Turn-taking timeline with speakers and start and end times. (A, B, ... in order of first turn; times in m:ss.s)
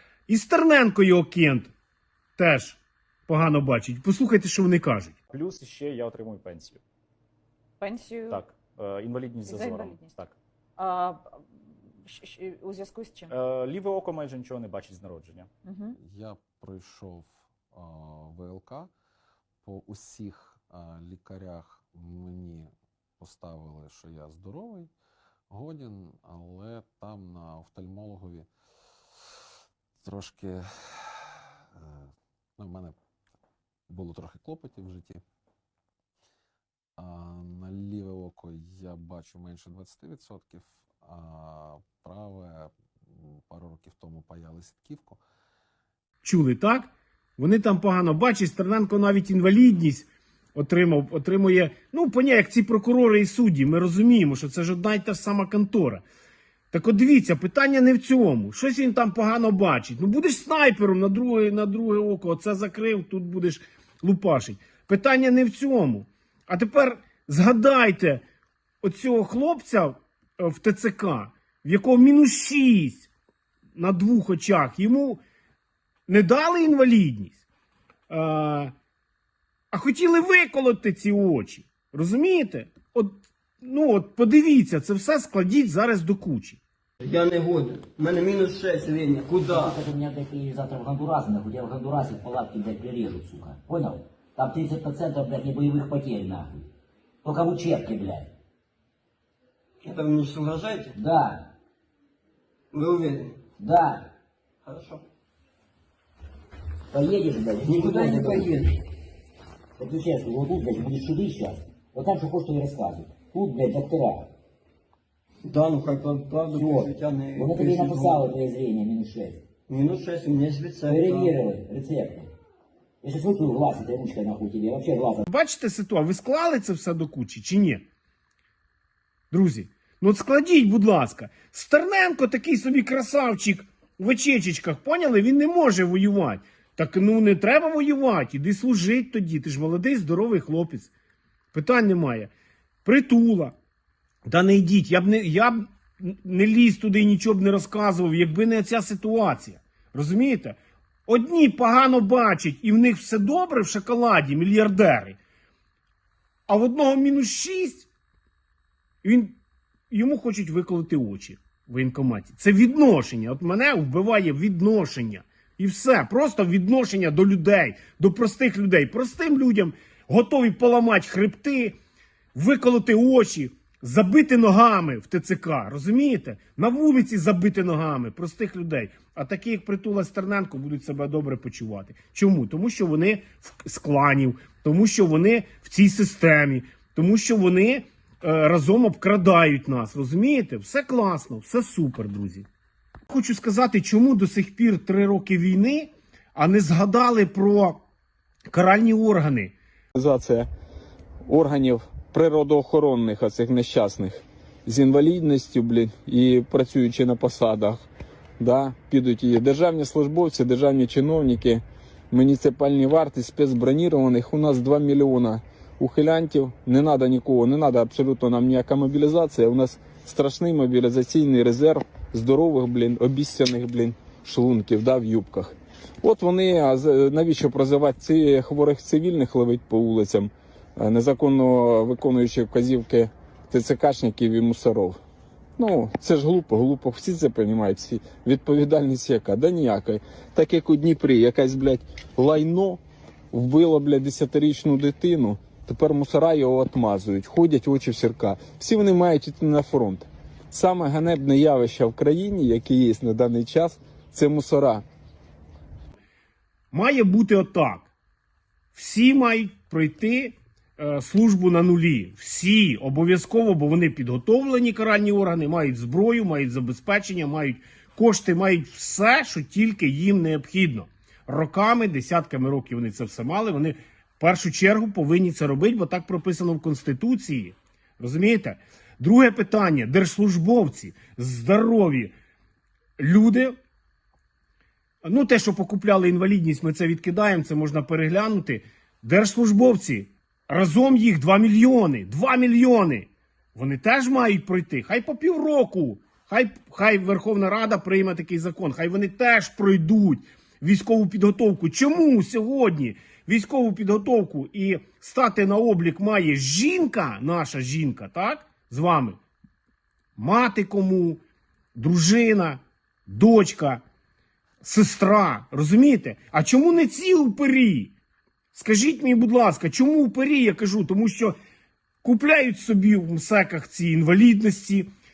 0:00.3-0:01.7 A
0:02.4-0:05.2 A
0:05.3-0:06.8 B
0:07.8-0:08.4 C
0:08.3-0:10.4 B
0:09.4-0:10.1 C
0:10.8-0:11.4 C
0:12.0-0:13.3 C
0:13.3-0:15.5 B
0:15.6-0:16.0 C
0:15.9-0:18.9 D
0:19.6-0:24.9 D
0:25.5-0:28.5 D
0:30.0-0:33.0 D
0:33.9-0:35.2 D
0:37.0-0:45.2 D
0:46.2-0:56.0 A
0:56.7-1:08.2 A
1:08.8-1:13.1 A
1:13.7-1:15.2 A
1:16.1-1:17.4 A
1:18.1-1:18.7 A
1:19.7-1:26.6 A
1:27.0-1:29.8 E
1:29.5-1:36.7 F
1:37.2-1:38.3 F
1:39.8-1:40.9 E
1:40.9-1:41.5 F
1:42.7-1:43.4 E
1:43.6-1:44.1 F
1:44.6-1:45.0 E
1:46.9-1:48.5 F
1:47.6-1:48.8 E
1:49.8-1:54.3 F
1:55.4-1:58.3 E
1:56.5-1:59.4 F
1:59.7-2:01.4 E
2:00.8-2:02.3 F
2:03.0-2:05.2 F
2:05.2-2:07.8 A
2:09.3-2:20.9 A
2:21.5-2:22.3 A
2:22.8-2:23.6 A
2:24.2-2:35.2 A
2:36.5-2:37.9 A
2:39.0-2:39.3 A
2:39.9-2:51.8 A
2:52.3-3:12.4 A
3:13.1-3:17.8 A
3:18.5-3:19.5 A
3:19.9-3:20.5 G
3:21.2-3:27.8 G
3:28.4-3:55.0 G
3:55.6-4:02.8 G
4:03.3-4:14.8 G
4:16.7-4:17.9 A
4:18.7-4:42.1 A
4:43.0-4:43.5 A
4:45.0-5:09.2 A
5:10.2-5:11.2 A
5:11.7-5:13.8 A
5:14.6-5:17.9 A
5:18.5-5:21.3 A
5:22.0-5:24.9 A